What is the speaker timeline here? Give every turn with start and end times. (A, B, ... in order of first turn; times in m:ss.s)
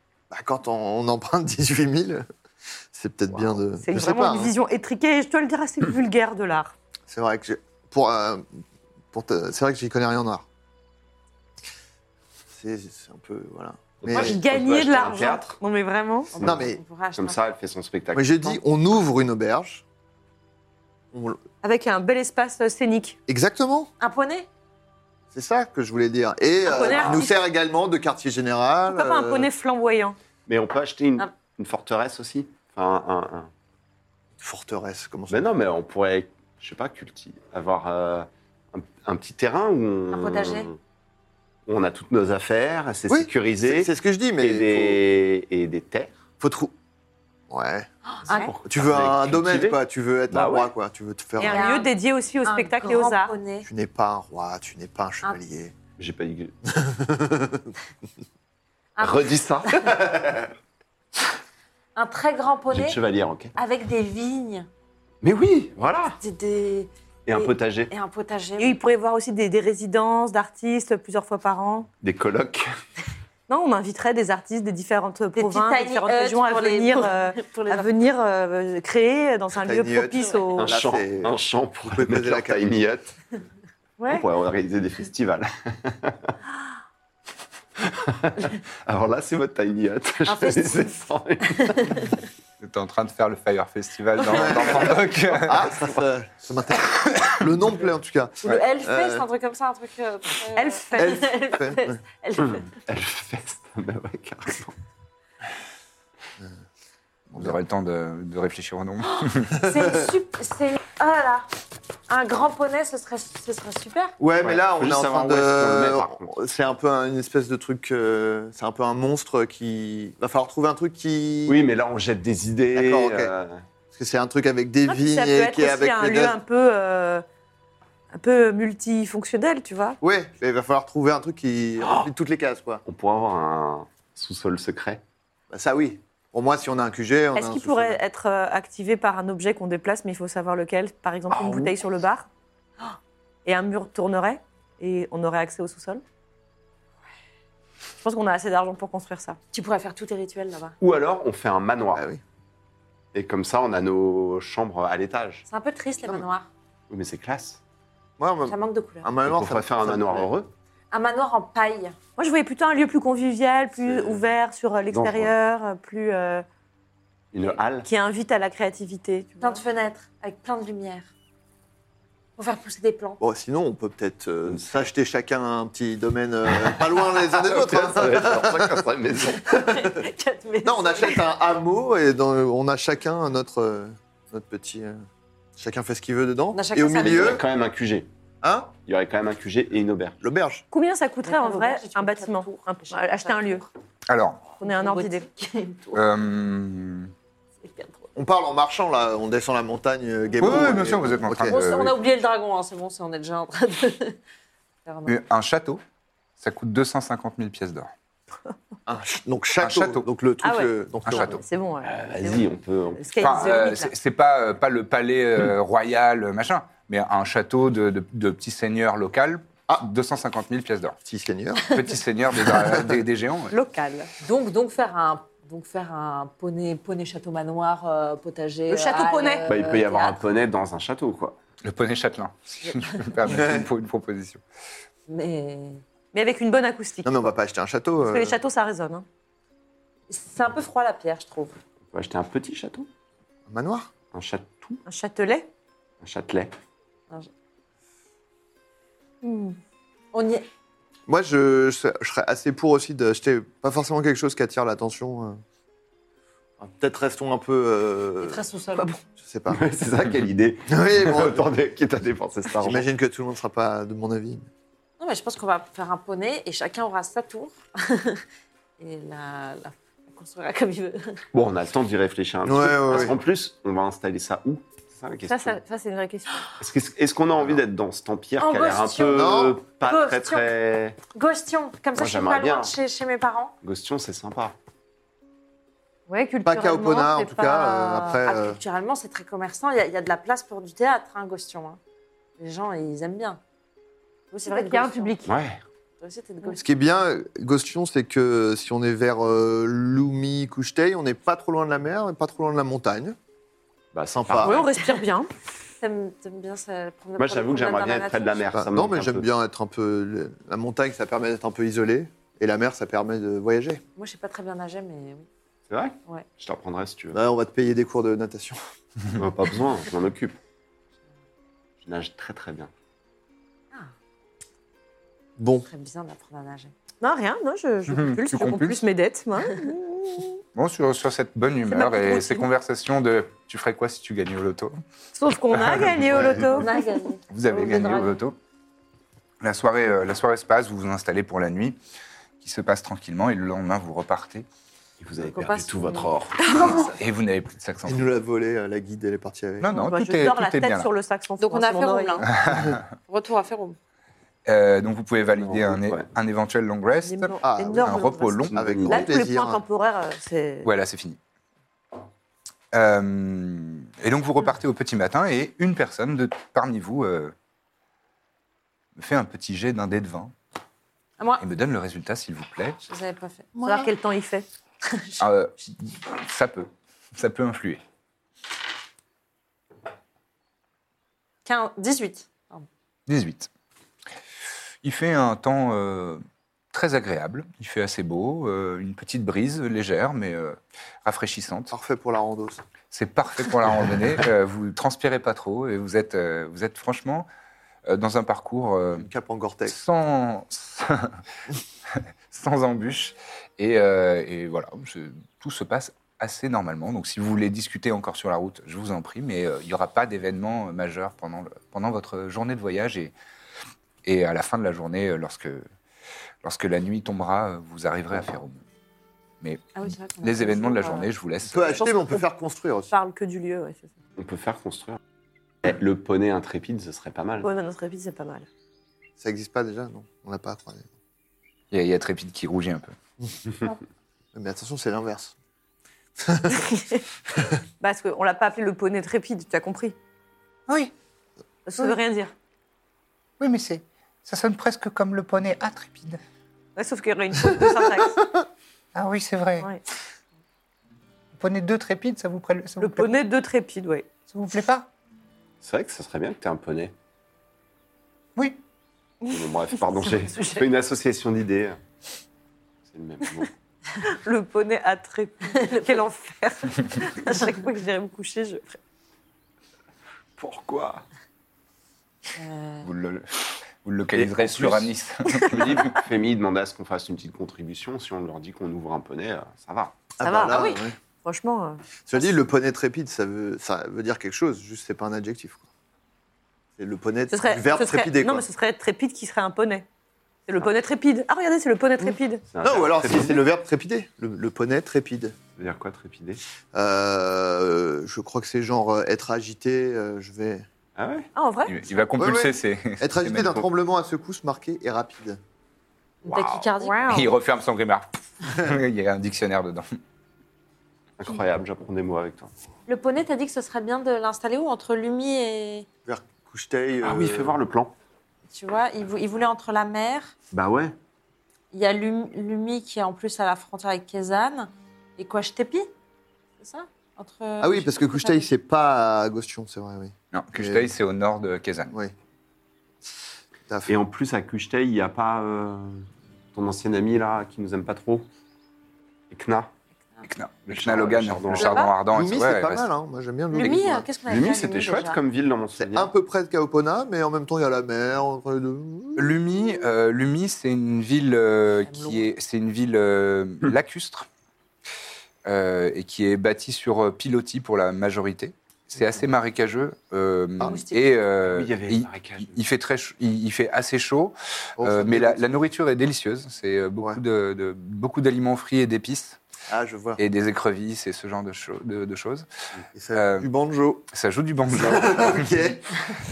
0:00.3-0:02.2 A
0:02.9-0:04.5 A
0:03.8-0:06.8 B
0:07.1-0:08.6 A
0:09.1-0:10.5 A
0:12.5-0:14.4 A
0:14.0-0:15.6 C
0:14.1-0:16.3 B
0:16.3-0:17.4 D
0:16.4-0:18.6 C
0:16.4-0:16.8 A
0:18.1-0:19.8 A
0:21.1-0:21.4 A
0:21.6-0:23.2 B
0:23.3-0:23.9 A
0:24.0-0:24.5 D
0:25.3-0:29.5 A
0:26.6-0:27.4 B
0:28.9-0:30.2 B
0:30.5-0:33.5 C
0:34.4-0:35.5 A
0:35.3-0:40.8 C
0:40.1-0:40.7 D
0:41.7-0:46.2 C
0:43.1-0:45.0 A
0:46.4-0:46.7 A
0:47.5-0:47.9 A
0:48.1-0:48.5 D
0:48.3-0:50.7 C
0:48.7-0:51.7 A
0:51.4-0:53.3 B
0:51.4-0:53.7 D
0:53.6-0:55.8 A
0:56.0-0:56.6 C
0:56.7-0:57.7 A
0:59.0-1:00.0 D
0:59.0-1:00.5 C
1:02.0-1:03.0 D
1:02.7-1:03.5 C
1:03.6-1:04.7 D
1:05.2-1:06.2 C
1:06.2-1:08.8 D
1:07.3-1:07.9 C
1:08.6-1:11.9 B
1:12.0-1:12.7 C
1:13.5-1:20.7 B
1:15.3-1:17.9 D
1:19.6-1:22.8 A
1:20.6-1:23.2 C
1:24.0-1:24.2 B
1:24.1-1:26.4 C
1:27.8-1:32.0 C
1:30.3-1:31.0 D
1:31.5-1:32.1 D
1:32.6-1:35.7 E
1:34.2-1:34.5 D
1:34.3-1:39.3 A
1:37.1-1:37.4 E
1:38.4-1:42.7 D
1:40.6-1:41.3 B
1:41.0-1:42.0 A
1:42.8-1:44.8 C
1:47.3-1:49.6 E
1:49.0-1:51.5 D
1:52.1-1:54.2 D
1:54.2-2:01.6 A
1:54.4-1:56.4 C
2:01.5-2:03.6 C
2:02.7-2:03.3 A
2:03.9-2:06.4 A
2:04.9-2:07.2 B
2:08.1-2:10.0 B
2:10.0-2:12.8 A
2:11.8-2:12.1 C
2:12.9-2:15.0 C
2:15.5-2:18.0 A
2:17.4-2:22.3 B
2:21.3-2:21.7 C
2:23.4-2:26.0 B
2:28.0-2:29.4 B
2:29.5-2:30.8 D
2:30.8-2:32.0 C
2:31.9-2:32.2 A
2:33.1-2:35.5 C
2:35.5-2:36.5 D
2:36.9-2:37.6 C
2:38.2-2:40.3 A
2:38.5-2:39.1 D
2:39.2-2:40.5 C
2:40.9-2:42.0 D
2:42.2-2:46.4 B
2:43.8-2:44.2 C
2:44.9-2:45.3 C
2:47.3-2:47.9 C
2:47.8-2:49.6 B
2:49.4-2:51.1 D
2:52.4-2:53.2 D
2:53.2-2:58.8 A
2:56.5-2:59.6 C
2:59.4-3:01.3 D
2:59.6-3:00.0 A
3:00.6-3:05.0 A
3:05.6-3:07.4 A
3:06.5-3:07.4 D
3:07.0-3:08.1 C
3:08.4-3:08.7 A
3:08.9-3:10.2 C
3:10.2-3:10.6 A
3:10.7-3:13.6 B
3:11.2-3:13.7 D
3:14.1-3:14.5 E
3:14.6-3:15.3 B
3:14.6-3:16.1 D
3:15.9-3:17.1 E
3:17.6-3:18.1 D
3:18.2-3:21.6 A
3:20.4-3:22.0 E
3:21.4-3:24.2 D
3:24.8-3:25.2 D
3:25.1-3:25.8 E
3:26.4-3:27.9 E
3:28.9-3:31.4 A
3:29.6-3:30.1 E
3:30.4-3:33.9 B
3:31.0-3:31.4 E
3:31.8-3:33.6 C
3:33.2-3:41.0 E
3:41.0-3:41.7 A
3:41.6-3:43.6 E
3:42.5-3:43.0 A
3:43.5-3:44.1 B
3:44.2-3:50.2 D
3:48.7-3:49.4 B
3:49.5-3:51.4 C
3:51.6-3:54.4 E
3:52.6-3:53.2 D
3:53.2-3:53.7 A
3:55.1-3:55.8 D
3:56.1-3:57.3 B
3:57.0-3:58.4 A
3:58.0-3:59.0 B
4:00.1-4:01.6 D
4:01.9-4:02.9 C
4:03.5-4:03.9 A
4:04.1-4:04.8 C
4:04.9-4:05.5 B
4:06.0-4:06.5 C
4:09.2-4:09.6 B
4:10.1-4:10.5 D
4:11.1-4:15.4 A
4:16.6-4:18.4 A
4:18.2-4:18.9 D
4:19.2-4:19.6 A
4:19.5-4:22.9 C
4:20.7-4:21.5 A
4:22.6-4:24.5 A
4:25.0-4:28.2 D
4:28.8-4:31.2 D
4:31.3-4:35.6 C
4:32.4-4:33.2 A
4:35.3-4:36.5 B
4:36.6-4:41.0 C
4:38.4-4:40.5 D
4:39.1-4:39.6 A
4:41.1-4:43.5 D
4:42.0-4:42.7 C
4:43.6-4:44.6 C
4:46.1-4:47.7 B
4:46.4-4:48.6 A
4:47.5-4:51.8 D
4:52.4-4:53.4 D
4:54.3-4:55.2 D
4:54.5-4:55.4 B
4:55.2-4:55.6 C
4:56.0-4:56.6 D
4:56.6-5:03.2 A
5:03.9-5:04.6 C
5:04.1-5:04.6 A
5:04.4-5:05.3 B
5:05.8-5:08.5 D
5:07.2-5:09.3 C
5:08.5-5:13.8 A
5:14.0-5:15.3 D
5:15.7-5:17.2 C
5:17.1-5:18.6 A
5:19.2-5:20.4 C
5:21.8-5:22.7 C
5:25.4-5:25.7 A
5:25.7-5:26.7 D
5:27.0-5:30.4 B
5:27.9-5:28.8 E
5:30.5-5:34.8 E
5:31.7-5:32.5 B
5:35.2-5:36.9 B
5:35.5-5:36.5 E
5:36.5-5:38.2 D
5:37.3-5:38.4 E
5:39.4-5:41.8 E
5:42.4-5:44.5 E
5:45.0-5:46.5 C
5:45.2-5:46.9 D
5:46.8-5:48.1 E
5:47.8-5:49.7 A
5:49.6-5:50.9 E
5:49.7-5:52.3 B
5:51.4-5:52.3 D
5:52.4-5:52.8 E
5:52.5-5:52.8 A
5:53.1-5:53.8 D
5:54.5-5:58.8 E
5:55.4-5:56.1 C
5:57.0-6:00.7 B
5:57.4-5:58.0 A
5:58.5-5:59.1 C
5:58.5-5:59.6 A
6:00.6-6:01.2 E
6:02.7-6:07.3 E
6:09.0-6:10.3 E
6:11.2-6:11.4 D
6:11.4-6:12.8 E
6:12.8-6:13.7 D
6:13.6-6:14.4 B
6:14.9-6:15.2 D
6:15.2-6:17.8 E
6:21.4-6:22.7 D
6:23.1-6:23.5 E
6:24.8-6:26.2 E
6:26.7-6:31.7 E
6:31.7-6:32.6 A
6:32.9-6:37.3 E
6:37.9-6:39.1 E
6:39.0-6:39.8 A
6:39.7-6:41.2 E
6:41.9-6:53.1 E
6:54.0-6:55.6 E
6:56.4-6:58.6 E
6:59.8-7:01.1 D
7:00.2-7:01.8 E
7:01.4-7:02.9 A
7:01.8-7:02.2 B
7:02.9-7:03.9 B
7:04.2-7:05.0 C
7:05.6-7:07.5 C
7:07.4-7:08.5 B
7:09.2-7:10.9 A
7:11.7-7:12.9 E
7:14.3-7:15.4 A
7:16.2-7:16.7 A
7:16.5-7:17.0 B
7:17.8-7:20.0 B
7:21.7-7:22.3 B
7:23.4-7:26.2 E
7:26.8-7:28.2 B
7:29.0-7:29.7 E
7:31.4-7:33.1 E
7:32.8-7:34.1 B
7:34.3-7:34.9 E
7:35.6-7:36.9 C
7:39.3-7:41.8 C
7:42.9-7:43.5 C
7:44.0-7:48.8 B
7:50.4-7:51.0 C
7:52.4-7:52.9 D
7:52.8-7:56.0 E
7:54.1-7:54.9 C
7:55.5-8:00.0 C
8:00.2-8:01.0 A
8:00.2-8:02.3 B
8:02.1-8:05.6 A
8:06.8-8:08.5 A
8:07.3-8:09.9 B
8:10.5-8:12.4 B
8:12.5-8:13.4 C
8:12.6-8:15.4 A
8:15.6-8:16.4 C
8:16.7-8:20.7 A
8:21.0-8:21.3 C
8:21.4-8:21.8 B
8:21.7-8:23.6 E
8:22.2-8:25.4 A
8:26.2-8:27.3 D
8:26.3-8:26.7 C
8:26.8-8:27.3 B
8:27.1-8:29.9 E
8:31.2-8:32.5 C
8:32.9-8:35.9 D
8:36.1-8:37.6 A
8:37.0-8:37.9 C
8:38.5-8:40.3 D
8:40.5-8:41.0 C
8:41.7-8:45.9 D
8:46.6-8:48.5 D
8:47.6-8:50.9 A
8:50.3-8:51.9 E
8:53.7-8:54.0 A
8:53.9-8:58.3 C
8:59.3-8:59.7 C
9:00.2-9:02.9 E
9:00.7-9:01.8 C
9:01.6-9:01.9 D
9:02.1-9:04.1 A
9:03.5-9:05.2 D
9:04.3-9:06.1 C
9:05.8-9:09.4 A
9:09.2-9:14.3 E
9:11.8-9:12.3 D
9:15.4-9:29.4 E
9:20.6-9:21.1 D
9:21.4-9:22.6 C
9:24.8-9:25.5 A
9:29.7-9:30.2 A
9:30.2-9:32.5 E
9:33.0-9:34.1 A
9:33.2-9:33.5 E
9:34.1-9:35.7 E
9:34.7-9:35.8 A